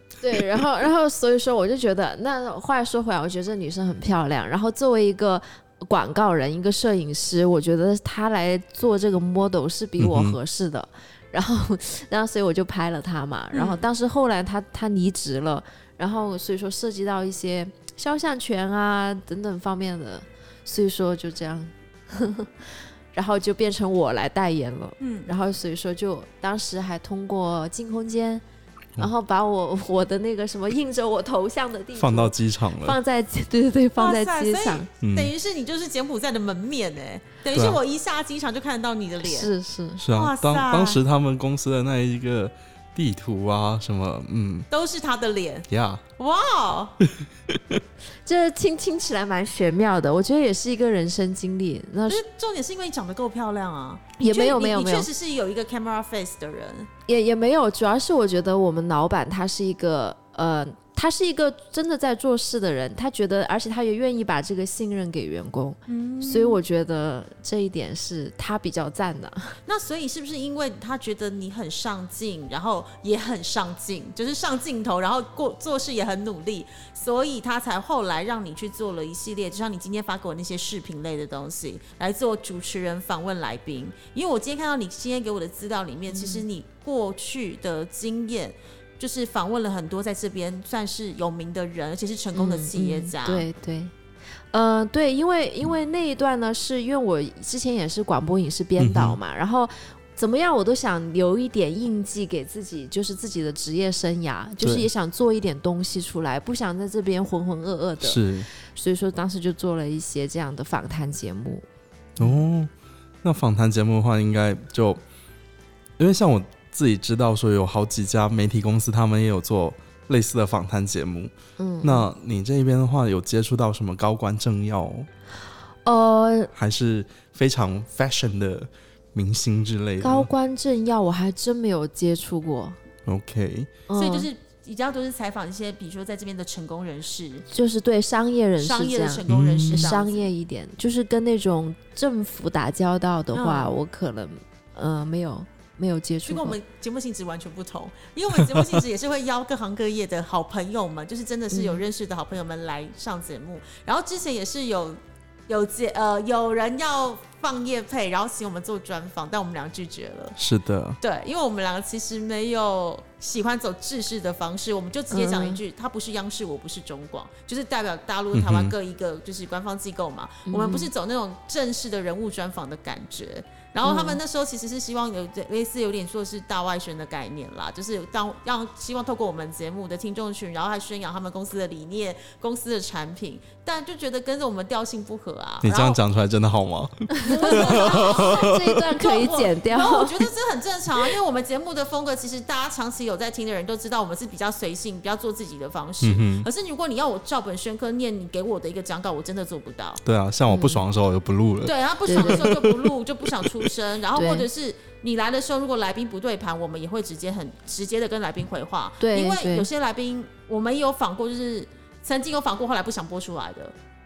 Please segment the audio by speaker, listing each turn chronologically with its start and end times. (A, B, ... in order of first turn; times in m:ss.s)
0:00.2-0:22.5 A
0:10.0-0:10.4 B
0:13.5-0:13.8 C
0:23.1-0:28.4 A
0:25.0-0:25.3 C
0:29.0-0:34.9 A
0:32.0-0:33.0 B
0:34.0-0:39.5 C
0:35.0-0:35.3 B
0:37.5-0:37.8 B
0:39.2-0:40.0 A
0:40.0-0:44.7 B
0:40.1-0:41.0 C
0:44.7-0:45.7 C
0:45.7-0:46.0 B
0:46.2-0:47.0 C
0:47.0-0:47.8 B
0:48.2-0:52.2 A
0:52.1-0:56.9 C
0:54.2-0:55.1 A
0:57.1-1:09.6 A
1:05.9-1:06.6 C
1:09.7-1:33.5 C
1:26.1-1:26.4 A
1:32.4-1:33.9 A
1:34.5-1:51.6 A
1:38.8-1:39.2 B
1:44.6-1:44.9 B
1:48.0-1:48.5 B
1:52.2-1:52.7 B
1:53.2-1:55.0 B
1:56.0-2:01.3 B
2:01.6-2:02.1 A
2:01.8-2:05.1 B
2:05.8-2:06.5 A
2:06.5-2:10.3 B
2:10.0-2:12.8 A
2:13.1-2:13.7 B
2:13.9-2:14.3 A
2:14.0-2:17.5 C
2:17.5-2:26.6 A
2:18.6-2:20.3 C
2:19.3-2:20.0 B
2:23.3-2:23.7 C
2:26.3-2:40.4 C
2:31.5-2:31.8 A
2:40.4-2:41.0 B
2:41.0-3:06.0 C
2:45.1-2:45.6 A
2:48.3-2:48.7 B
2:50.5-2:50.9 A
2:53.8-2:54.2 A
3:05.6-3:08.8 B
3:07.2-3:10.3 A
3:07.3-3:20.0 C
3:16.0-3:16.5 B
3:20.0-3:22.9 B
3:20.5-3:20.8 A
3:21.6-3:33.7 C
3:22.1-3:22.5 A
3:24.2-3:24.5 A
3:29.0-3:29.7 A